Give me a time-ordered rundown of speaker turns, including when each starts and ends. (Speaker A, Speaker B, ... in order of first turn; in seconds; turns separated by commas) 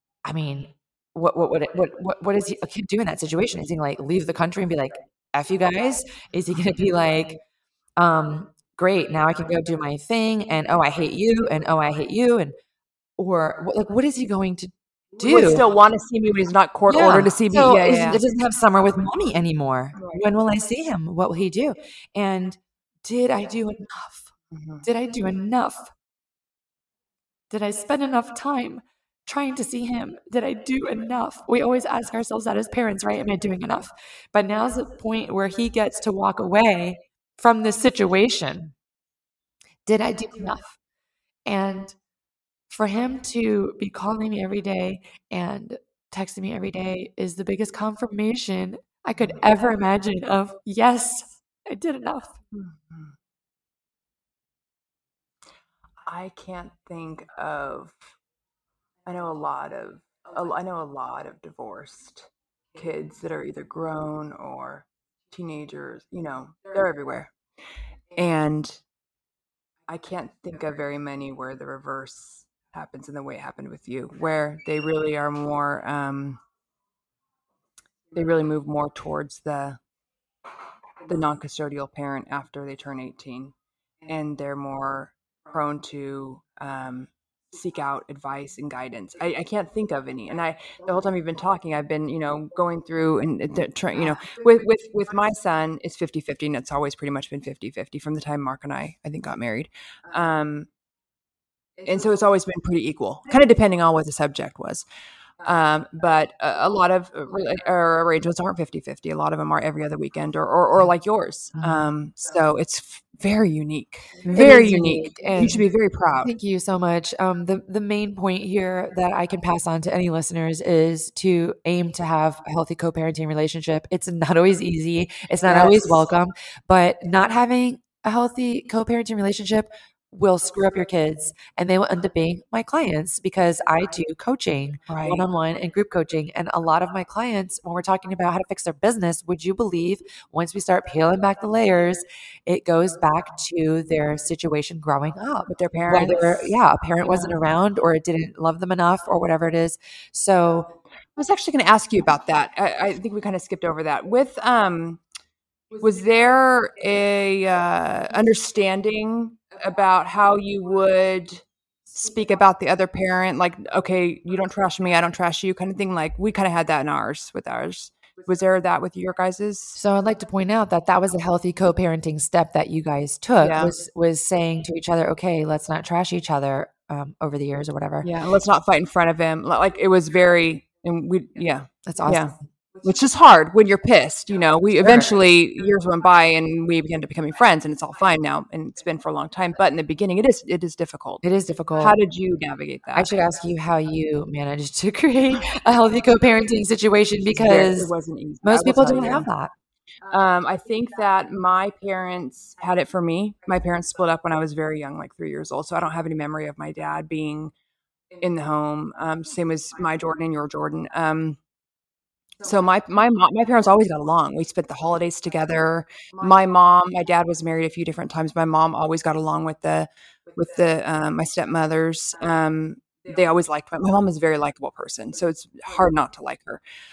Speaker A: 0.2-7.4, Speaker A: 8.0-12.5, Speaker A: 13.2-15.7, Speaker B: 15.2-18.2, Speaker A: 16.9-24.3, Speaker B: 19.9-20.2, Speaker B: 24.5-24.9, Speaker A: 24.8-25.9, Speaker A: 27.5-38.7, Speaker A: 39.9-40.8, Speaker A: 41.5-42.0, Speaker A: 42.7-52.4, Speaker B: 52.5-53.1, Speaker B: 56.0-58.0, Speaker B: 59.1-67.3, Speaker B: 68.2-68.8, Speaker B: 69.9-76.4, Speaker B: 78.2-79.8, Speaker B: 81.1-83.5, Speaker B: 84.1-100.7, Speaker B: 101.8-104.8, Speaker B: 105.4-116.3, Speaker A: 114.3-115.7, Speaker A: 116.2-150.7, Speaker B: 125.5-126.0, Speaker B: 134.9-135.2, Speaker B: 145.5-147.3, Speaker B: 151.2-155.0, Speaker B: 155.8-169.8, Speaker A: 169.8-178.1, Speaker B: 173.4-173.7, Speaker B: 178.0-191.2, Speaker A: 181.9-182.5, Speaker A: 184.8-185.1, Speaker A: 191.2-192.0, Speaker B: 191.8-193.1, Speaker A: 192.9-197.9, Speaker B: 197.3-199.3, Speaker A: 198.4-199.5, Speaker B: 200.1-207.5, Speaker B: 208.2-211.4, Speaker B: 212.4-226.6